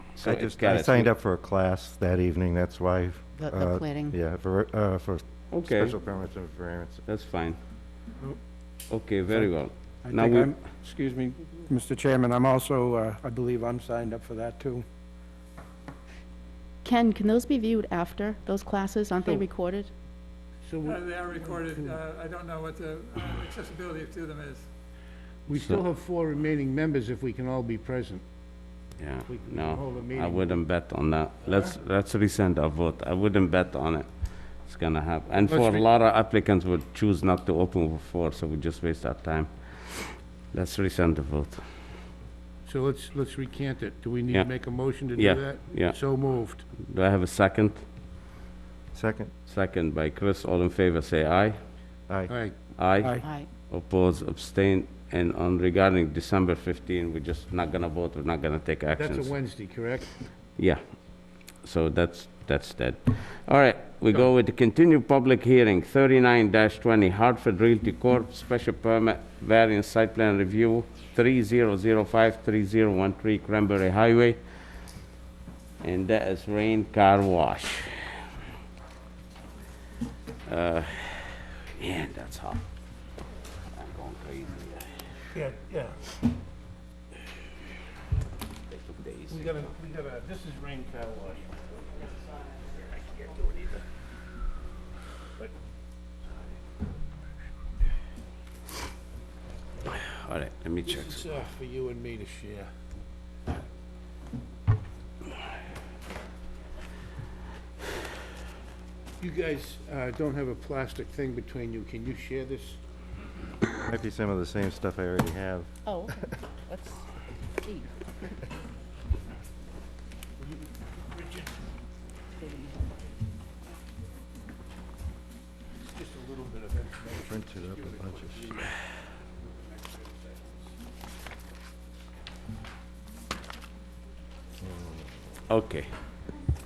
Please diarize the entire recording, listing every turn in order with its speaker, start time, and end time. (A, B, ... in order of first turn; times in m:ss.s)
0:00.2-0:01.1 A
0:00.2-0:07.0 B
0:03.4-0:04.2 C
0:05.5-0:06.0 A
0:07.1-0:07.6 A
0:08.9-0:10.5 A
0:10.0-0:14.9 D
0:16.8-0:19.9 C
0:20.6-0:22.0 E
0:20.9-0:24.6 F
0:25.5-0:28.2 E
0:25.5-0:25.8 A
0:29.0-0:41.6 A
0:29.3-0:30.6 E
0:35.5-0:35.9 E
0:42.6-0:46.7 E
0:44.3-0:46.0 A
0:46.8-0:47.8 A
0:48.9-0:49.3 B
0:49.5-0:51.6 A
0:52.3-0:52.6 E
0:52.8-0:59.3 A
0:53.2-0:53.5 C
0:59.0-1:00.2 E
1:00.6-1:00.8 A
1:01.6-1:14.4 A
1:15.8-1:17.9 A
1:20.5-1:22.6 A
1:23.7-1:25.1 A
1:25.3-1:26.1 E
1:28.7-1:29.7 A
1:29.3-1:31.6 E
1:40.0-1:41.2 A
1:40.8-1:42.7 E
1:49.2-1:52.8 E
1:53.8-1:55.7 B
1:55.8-1:58.3 C
2:00.4-2:01.5 E
2:02.4-2:02.8 C
2:05.9-2:08.8 E
2:07.2-2:08.5 B
2:14.6-2:15.1 B
2:15.5-2:15.9 A